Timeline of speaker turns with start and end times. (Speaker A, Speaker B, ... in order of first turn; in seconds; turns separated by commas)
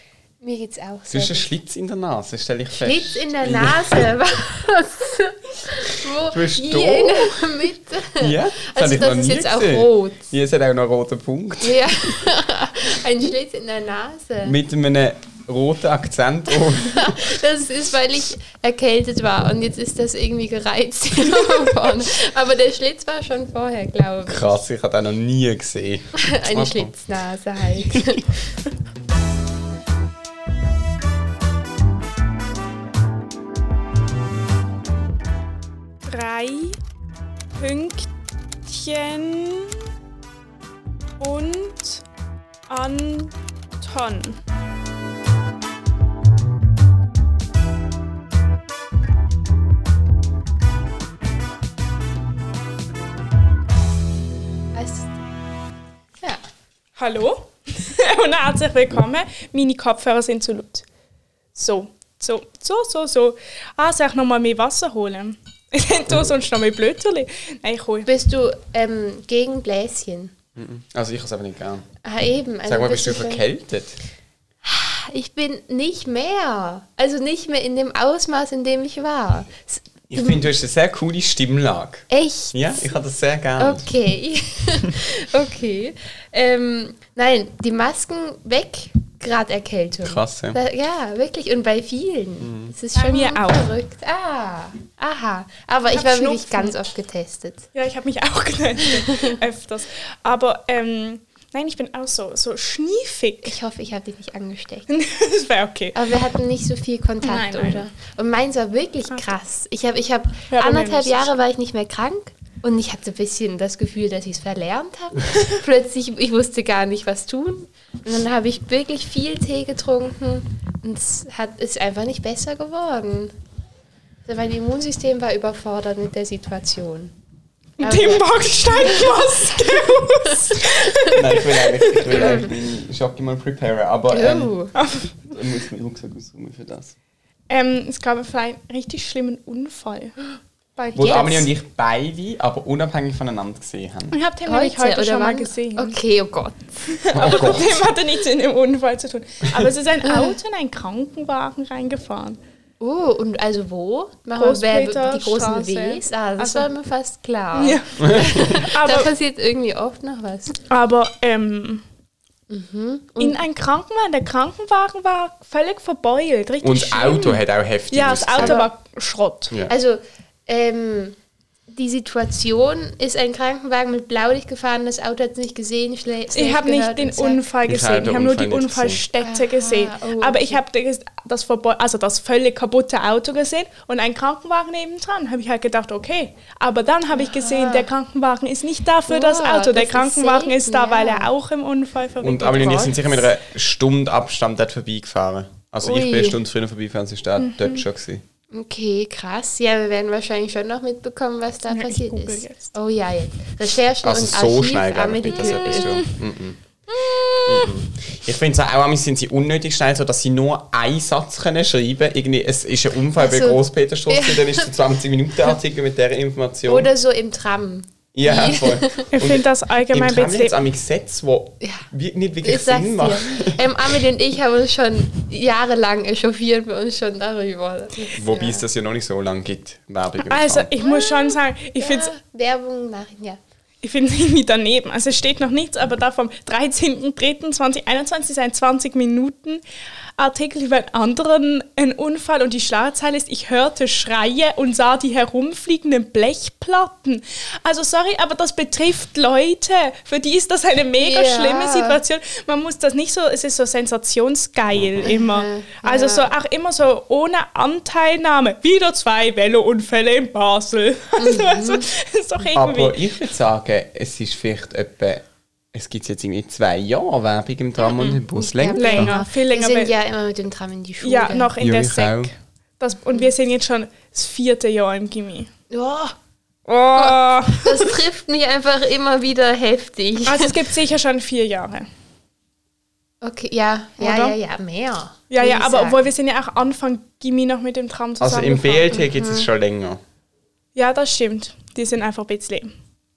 Speaker A: 0.4-1.5, Speaker B: 1.1-4.1, Speaker A: 2.7-10.3, Speaker B: 6.2-7.4, Speaker B: 8.2-12.2, Speaker A: 11.6-14.6, Speaker B: 14.4-17.3, Speaker A: 16.6-24.5, Speaker B: 24.3-26.9, Speaker A: 26.2-28.6, Speaker B: 27.9-28.1, Speaker C: 36.1-36.8, Speaker C: 37.6-38.1, Speaker C: 38.7-39.9, Speaker C: 41.2-42.0, Speaker C: 42.7-44.4, Speaker A: 54.7-55.1, Speaker C: 57.0-60.8, Speaker C: 61.5-68.1, Speaker A: 68.0-70.3, Speaker B: 70.6-71.9, Speaker A: 72.0-73.5, Speaker B: 72.7-74.0, Speaker A: 74.6-80.5, Speaker B: 80.1-83.8, Speaker A: 82.1-82.9, Speaker A: 83.6-97.7, Speaker B: 90.0-90.6, Speaker B: 92.4-92.7, Speaker C: 93.0-93.7, Speaker C: 95.9-96.7, Speaker C: 97.8-103.5, Speaker A: 98.8-99.4, Speaker A: 103.4-104.9, Speaker C: 104.9-106.0, Speaker A: 106.0-123.3, Speaker C: 107.2-107.8, Speaker C: 110.5-111.3, Speaker A: 124.3-127.2, Speaker A: 127.8-130.7, Speaker C: 127.8-132.4, Speaker B: 131.0-134.6, Speaker A: 132.1-132.5, Speaker A: 134.1-134.8, Speaker C: 134.8-135.1, Speaker B: 135.2-136.9, Speaker C: 137.5-140.2, Speaker A: 140.8-141.5, Speaker C: 140.9-141.3, Speaker B: 141.0-144.2, Speaker C: 144.1-146.0, Speaker A: 144.4-147.4, Speaker C: 146.9-152.4, Speaker B: 147.1-147.8, Speaker A: 150.0-150.4, Speaker A: 152.8-160.6, Speaker C: 154.4-156.7, Speaker C: 157.6-159.1, Speaker B: 158.0-158.5, Speaker C: 160.7-161.8, Speaker A: 162.5-163.4, Speaker C: 163.2-169.5, Speaker B: 166.6-168.7, Speaker A: 168.4-168.7, Speaker A: 169.7-171.2, Speaker A: 171.7-177.4, Speaker C: 176.3-193.3, Speaker B: 177.7-179.0, Speaker A: 179.2-180.6, Speaker A: 187.1-187.9, Speaker A: 189.1-191.3, Speaker B: 192.2-198.2, Speaker A: 195.8-196.4, Speaker C: 197.4-197.8, Speaker A: 198.5-206.1, Speaker C: 201.7-202.7, Speaker B: 204.0-206.6, Speaker C: 205.4-206.1, Speaker C: 206.9-207.7, Speaker B: 207.4-216.9, Speaker A: 213.2-214.7, Speaker A: 216.7-219.1, Speaker B: 218.1-223.7, Speaker C: 219.1-220.7, Speaker A: 222.4-228.7, Speaker B: 228.2-230.7, Speaker C: 230.3-232.1, Speaker A: 230.8-233.4, Speaker C: 233.8-239.6, Speaker C: 240.2-263.0, Speaker A: 251.0-252.0, Speaker B: 254.7-255.1, Speaker A: 255.0-256.3, Speaker A: 261.2-261.9, Speaker B: 262.6-269.2, Speaker C: 267.8-268.2, Speaker A: 268.3-271.5, Speaker C: 268.7-269.9, Speaker C: 271.0-275.5, Speaker B: 271.6-272.3, Speaker A: 275.7-276.1, Speaker C: 276.7-277.9, Speaker A: 276.9-280.6, Speaker C: 280.2-281.9, Speaker A: 283.2-286.1, Speaker C: 284.0-284.4, Speaker C: 285.3-289.0, Speaker B: 288.2-290.0, Speaker A: 289.0-289.5, Speaker C: 290.8-292.7